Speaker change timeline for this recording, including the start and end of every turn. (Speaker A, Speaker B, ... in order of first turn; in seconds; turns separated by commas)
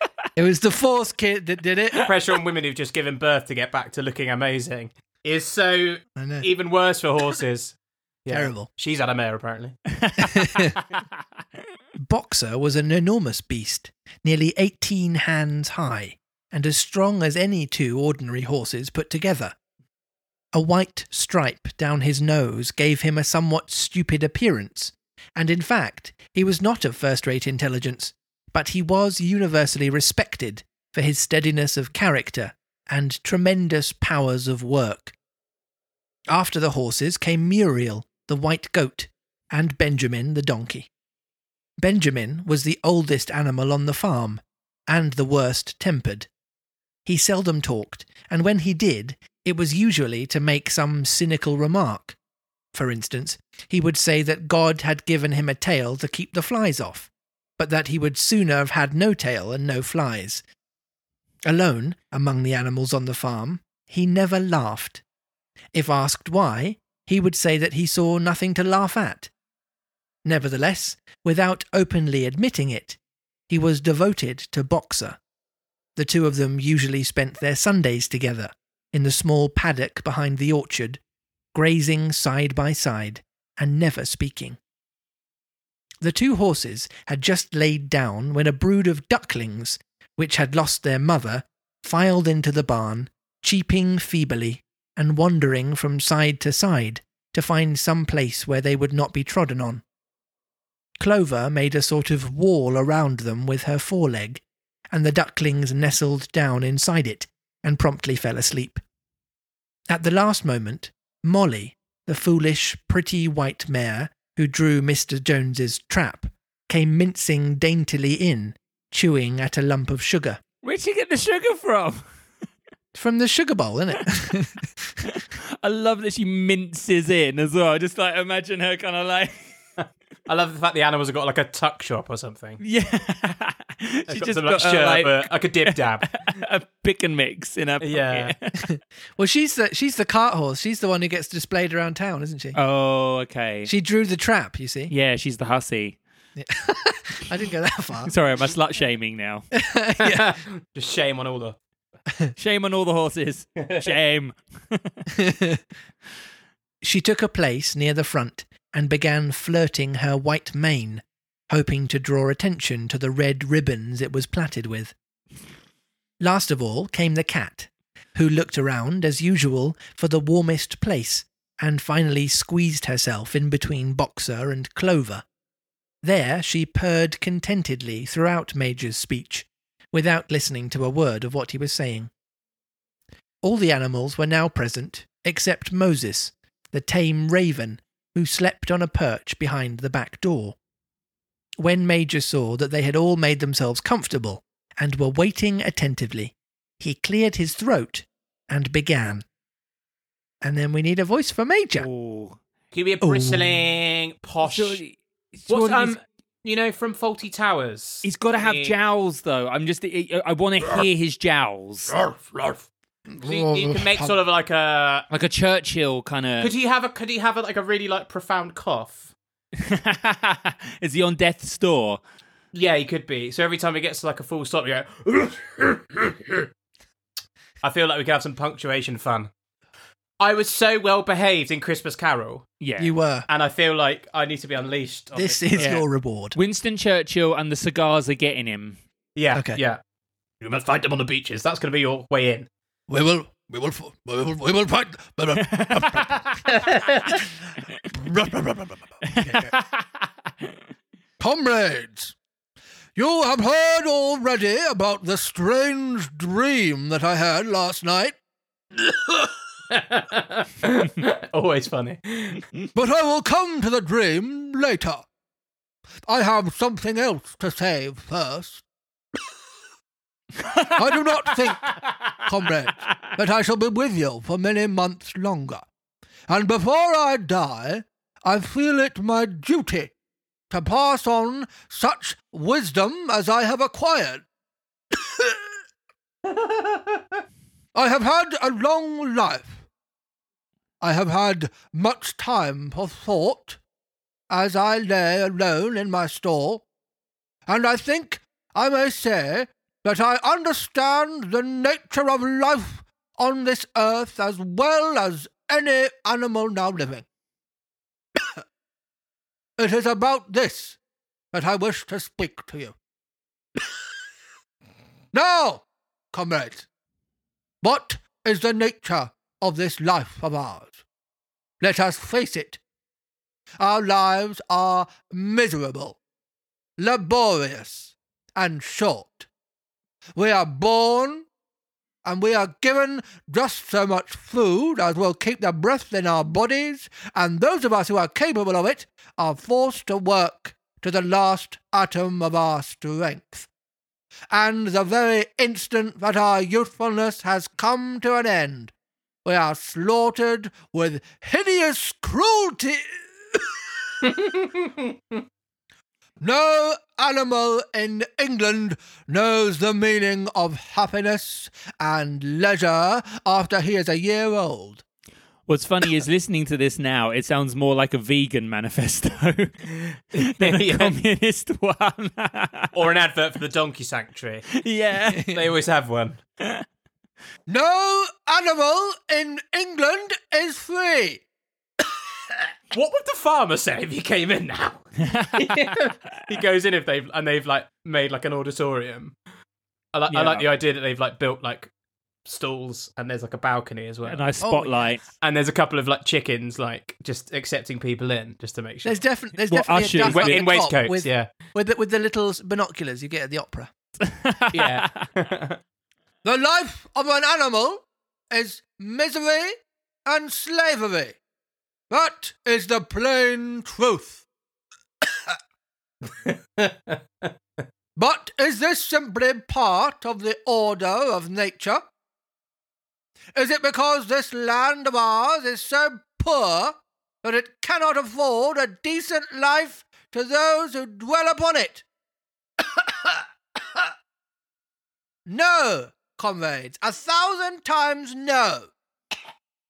Speaker A: 0.3-2.0, Speaker B: 2.0-9.8, Speaker A: 6.2-6.5, Speaker A: 8.3-8.7, Speaker C: 9.9-10.8, Speaker A: 10.3-10.7, Speaker A: 12.0-19.6, Speaker A: 20.5-35.1, Speaker A: 36.3-40.9, Speaker A: 41.8-46.3, Speaker A: 47.0-52.2, Speaker A: 52.7-60.4, Speaker A: 61.5-65.0, Speaker A: 65.7-69.3, Speaker A: 70.2-75.2, Speaker A: 76.0-81.0, Speaker A: 81.5-84.6, Speaker A: 86.0-99.8, Speaker A: 101.0-108.8, Speaker A: 109.9-120.4, Speaker C: 120.6-122.0, Speaker A: 122.9-124.7, Speaker C: 125.0-129.6, Speaker B: 130.3-132.6, Speaker C: 132.6-138.6, Speaker B: 134.1-136.4, Speaker B: 137.8-138.3, Speaker A: 138.6-142.6, Speaker C: 142.5-143.7, Speaker A: 143.7-144.9, Speaker C: 144.9-146.0, Speaker A: 146.3-148.1, Speaker C: 148.1-149.5, Speaker A: 149.5-150.4, Speaker B: 150.0-151.6, Speaker C: 152.3-155.0, Speaker B: 153.6-153.9, Speaker A: 155.1-155.6, Speaker A: 156.8-164.9, Speaker A: 166.2-175.2, Speaker A: 176.0-182.1, Speaker A: 183.4-190.6, Speaker A: 191.6-199.2, Speaker A: 200.4-201.9, Speaker C: 201.8-202.4, Speaker B: 202.7-204.8, Speaker A: 203.0-203.6, Speaker C: 204.4-205.9, Speaker B: 205.5-208.7, Speaker C: 208.0-211.9, Speaker B: 212.0-212.6, Speaker A: 213.1-214.1, Speaker B: 213.2-215.1, Speaker C: 215.1-216.5, Speaker B: 216.4-219.1, Speaker C: 219.6-222.0, Speaker B: 222.5-226.5, Speaker B: 227.6-229.3, Speaker B: 230.2-232.5, Speaker C: 232.6-232.9, Speaker A: 232.8-233.3, Speaker B: 233.3-235.8, Speaker A: 235.1-236.4, Speaker C: 235.6-238.8, Speaker B: 239.2-239.8, Speaker A: 239.3-239.6, Speaker B: 240.4-242.5, Speaker A: 242.9-246.2, Speaker C: 245.3-246.8, Speaker B: 246.5-247.2, Speaker A: 247.9-249.5, Speaker C: 249.0-250.5, Speaker A: 251.2-252.2, Speaker A: 252.9-258.2, Speaker B: 259.7-262.5, Speaker A: 262.7-265.1, Speaker A: 266.1-268.6, Speaker C: 270.4-270.8, Speaker A: 270.8-271.7, Speaker A: 272.2-275.6, Speaker A: 276.3-279.9, Speaker A: 280.5-284.2, Speaker A: 284.9-285.4, Speaker B: 286.3-286.8, Speaker A: 287.7-289.6, Speaker A: 290.8-293.6, Speaker A: 294.3-296.6, Speaker A: 297.5-307.1, Speaker A: 308.1-308.4, Speaker A: 309.6-310.8, Speaker A: 311.3-312.8, Speaker A: 315.1-316.7, Speaker A: 317.6-320.8, Speaker A: 321.6-322.6, Speaker A: 323.6-326.0, Speaker A: 326.8-329.3, Speaker A: 330.1-331.3, Speaker A: 332.0-343.5, Speaker A: 344.3-348.7, Speaker A: 349.2-353.9, Speaker B: 354.0-354.7, Speaker A: 356.2-364.8, Speaker C: 365.5-369.6, Speaker B: 370.1-370.9, Speaker C: 370.2-372.7, Speaker B: 372.7-374.5, Speaker C: 374.5-375.4, Speaker B: 375.2-376.2, Speaker A: 377.5-381.2, Speaker B: 382.7-384.8, Speaker C: 385.0-385.9, Speaker B: 385.4-389.1, Speaker B: 389.9-391.7, Speaker C: 390.1-390.5, Speaker B: 392.2-394.2, Speaker C: 394.0-395.0, Speaker A: 394.4-395.0, Speaker B: 395.1-399.0, Speaker A: 398.8-403.7, Speaker C: 399.5-400.4, Speaker B: 400.0-401.3, Speaker C: 404.0-405.1, Speaker B: 404.5-405.6, Speaker A: 406.2-409.5, Speaker A: 410.1-411.2, Speaker A: 411.9-414.2, Speaker B: 416.2-417.0, Speaker A: 417.9-421.8, Speaker A: 423.3-431.8, Speaker A: 432.6-433.9, Speaker A: 435.2-438.7